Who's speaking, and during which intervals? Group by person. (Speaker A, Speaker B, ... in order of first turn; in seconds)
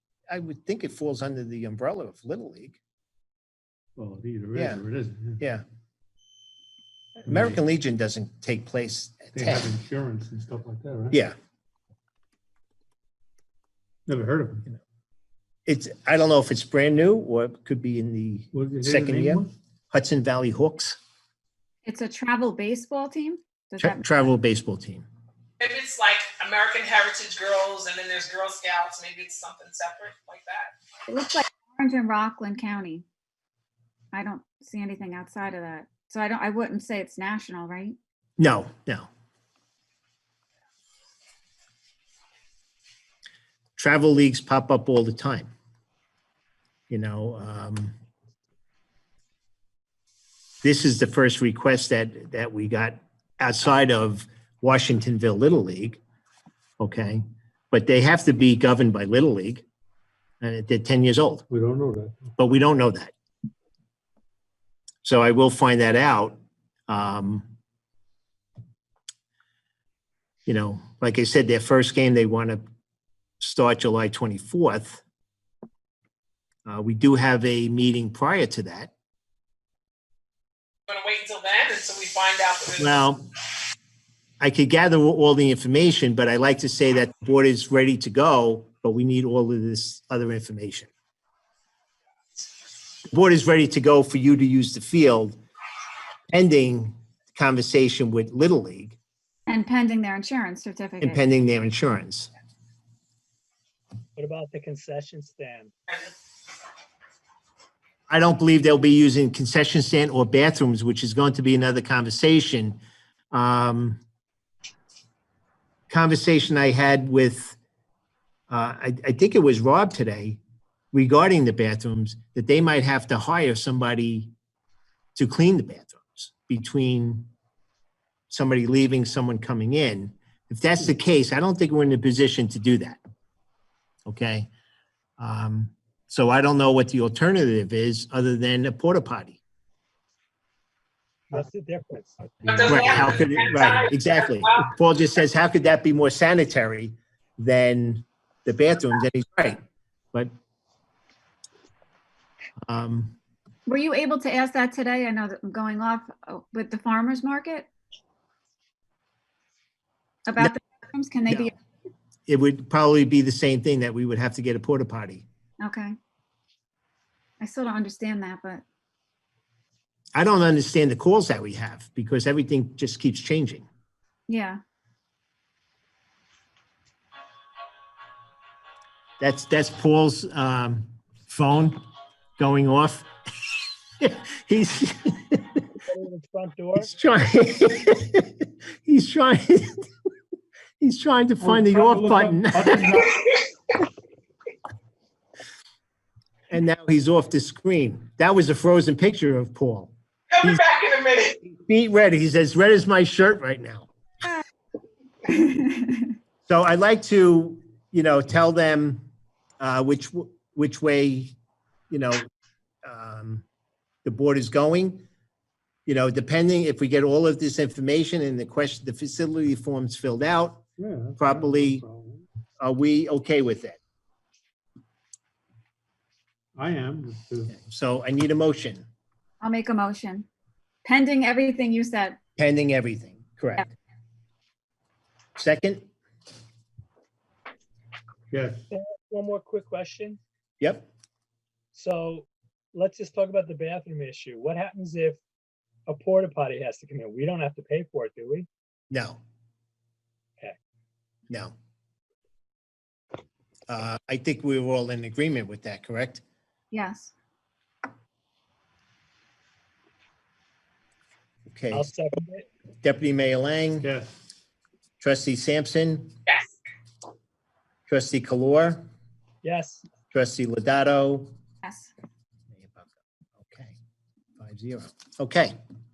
Speaker A: 0.3-2.8, 4.5-4.8, 7.2-9.7, 15.7-21.0, 23.8-25.1, 38.4-39.1, 43.8-45.5, 46.9-48.0, 50.6-56.0, 56.8-59.6, 60.4-61.5, 62.4-63.1, 65.0-67.5, 70.5-72.6, 73.4-75.0, 76.7-78.9, 82.8-83.2, 84.4-90.9, 93.0-95.4, 96.3-99.0, 101.0-102.3, 108.1-112.8, 113.3-114.0, 115.9-117.6, 118.5-120.4, 120.9-124.3, 125.1-127.3, 128.3-133.0, 134.1-134.5, 135.2-139.4, 142.6-149.6, 152.7-153.2, 162.3-165.2, 170.1-173.7, 179.2-181.8, 182.4-183.1, 184.0-185.6, 186.8-189.9, 190.8-193.2, 196.5-200.6, 201.4-203.9, 206.5-209.1, 209.6-211.3, 211.9-212.2, 212.8-213.4, 214.0-215.0, 215.8-220.6, 221.2-221.8, 222.6-223.8, 227.5-228.8, 232.4-233.7, 235.3-235.8, 240.6-240.9, 248.9-249.2, 251.3-251.5, 253.7-256.2, 261.5-261.9, 262.8-263.9, 265.0-266.1, 267.9-268.8, 270.1-271.3, 272.5-273.8, 274.4-275.6
Speaker B: 4.0-5.4, 7.2-7.6, 9.3-11.2, 14.1-14.7, 18.5-19.5, 61.5-62.3, 191.4-193.2, 220.8-222.2, 226.5-227.5, 238.3-238.6, 263.8-264.1
Speaker C: 21.9-24.1, 31.1-33.0, 34.1-38.0, 99.5-101.2, 153.7-157.7, 160.3-161.5, 165.6-165.9, 167.4-168.6, 174.3-174.6, 205.3-206.1, 229.4-230.3, 230.8-232.2, 256.7-257.1, 271.6-271.9
Speaker D: 25.6-30.7, 80.9-83.1, 142.4-144.7, 200.3-201.4, 266.3-266.6
Speaker E: 104.2-105.6, 141.3-142.1, 185.9-186.7, 238.7-240.2, 241.7-245.2, 245.9-248.5, 261.8-262.4, 269.4-269.8